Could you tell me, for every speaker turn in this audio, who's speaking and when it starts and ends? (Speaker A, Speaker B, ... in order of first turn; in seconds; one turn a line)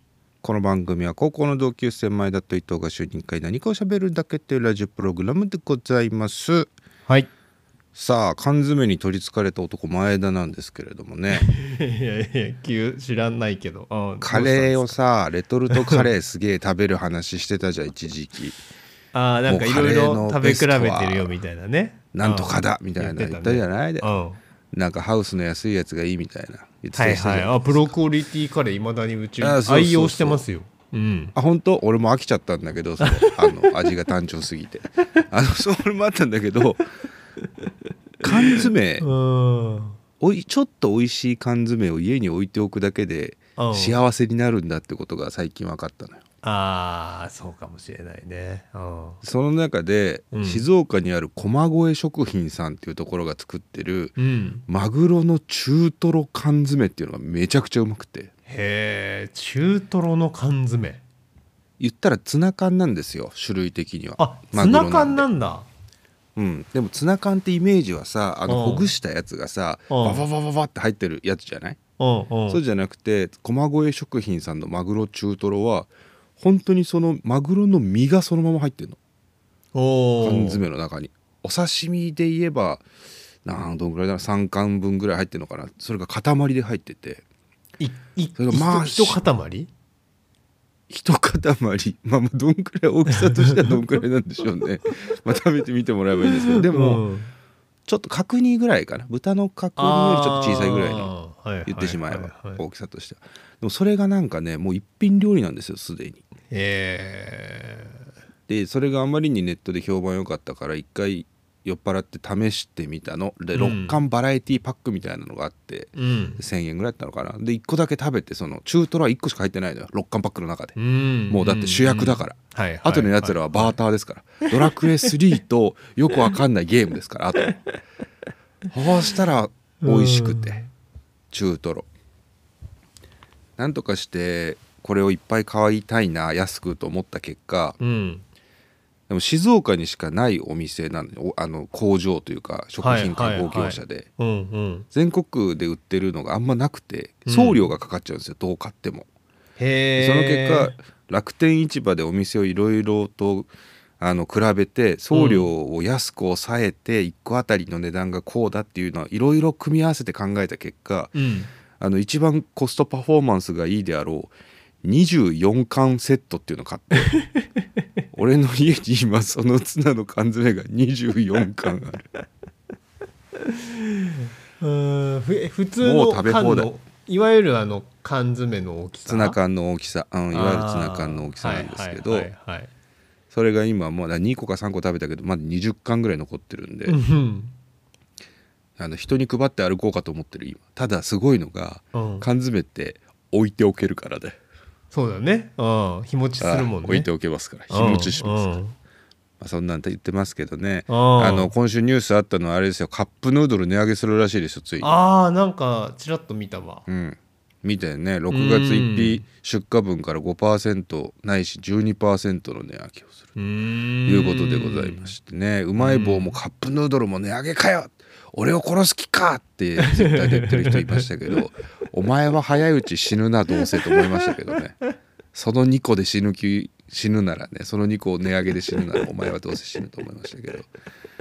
Speaker A: 0.4-6.7
Speaker A: 7.9-11.5
Speaker B: 11.3-15.0
Speaker A: 14.2-18.6
Speaker B: 15.7-16.1
Speaker B: 19.1-24.4
Speaker A: 19.5-21.3
Speaker A: 22.1-24.1
Speaker A: 24.7-27.9
Speaker B: 26.9-31.3
Speaker A: 29.4-30.4
Speaker A: 31.3-36.8
Speaker B: 33.0-33.8
Speaker A: 38.2-39.1
Speaker B: 38.3-40.0
Speaker A: 40.2-46.2
Speaker B: 43.6-44.0
Speaker B: 46.4-49.2
Speaker A: 49.2-58.3
Speaker B: 50.3-50.7
Speaker B: 54.2-54.6
Speaker B: 58.5-61.0
Speaker A: 61.8-65.3
Speaker B: 64.2-65.7
Speaker A: 66.3-71.8
Speaker B: 68.5-68.9
Speaker B: 69.9-70.2
Speaker B: 72.0-72.6
Speaker A: 72.5-79.0
Speaker B: 79.7-80.6
Speaker A: 80.2-82.8
Speaker A: 83.4-87.2
Speaker B: 87.8-89.7
Speaker A: 88.4-89.2
Speaker A: 90.9-97.0
Speaker B: 93.1-93.8
Speaker B: 96.4-97.3
Speaker A: 97.9-101.1
Speaker B: 99.8-102.6
Speaker A: 101.7-106.2
Speaker B: 106.5-107.9
Speaker A: 108.5-120.8
Speaker B: 113.5-114.0
Speaker B: 116.0-116.4
Speaker B: 120.8-123.8
Speaker A: 121.3-127.6
Speaker A: 128.7-130.6
Speaker B: 129.8-130.7
Speaker A: 131.3-131.9
Speaker A: 133.6-137.8
Speaker B: 137.8-138.2
Speaker A: 139.1-144.1
Speaker B: 142.8-144.9
Speaker A: 144.9-149.1
Speaker B: 147.3-147.7
Speaker B: 149.6-150.8
Speaker A: 150.0-153.5
Speaker A: 154.0-161.2
Speaker B: 155.1-155.5
Speaker B: 161.1-161.5
Speaker A: 161.8-167.1
Speaker B: 167.2-167.5
Speaker A: 168.1-172.1
Speaker B: 173.4-179.4
Speaker A: 175.8-176.7
Speaker A: 179.1-182.3
Speaker B: 180.3-182.7
Speaker A: 183.3-187.0
Speaker B: 186.8-187.5
Speaker A: 188.8-194.4
Speaker B: 191.9-192.2
Speaker B: 194.9-197.1
Speaker A: 196.4-198.6
Speaker B: 197.7-198.7
Speaker A: 199.4-204.9
Speaker B: 200.9-201.5
Speaker B: 204.8-206.8
Speaker A: 206.9-213.3
Speaker B: 208.3-209.2
Speaker B: 213.3-215.1
Speaker A: 214.1-224.8
Speaker B: 215.8-216.4
Speaker B: 219.8-221.1
Speaker B: 223.8-224.3
Speaker A: 225.3-230.7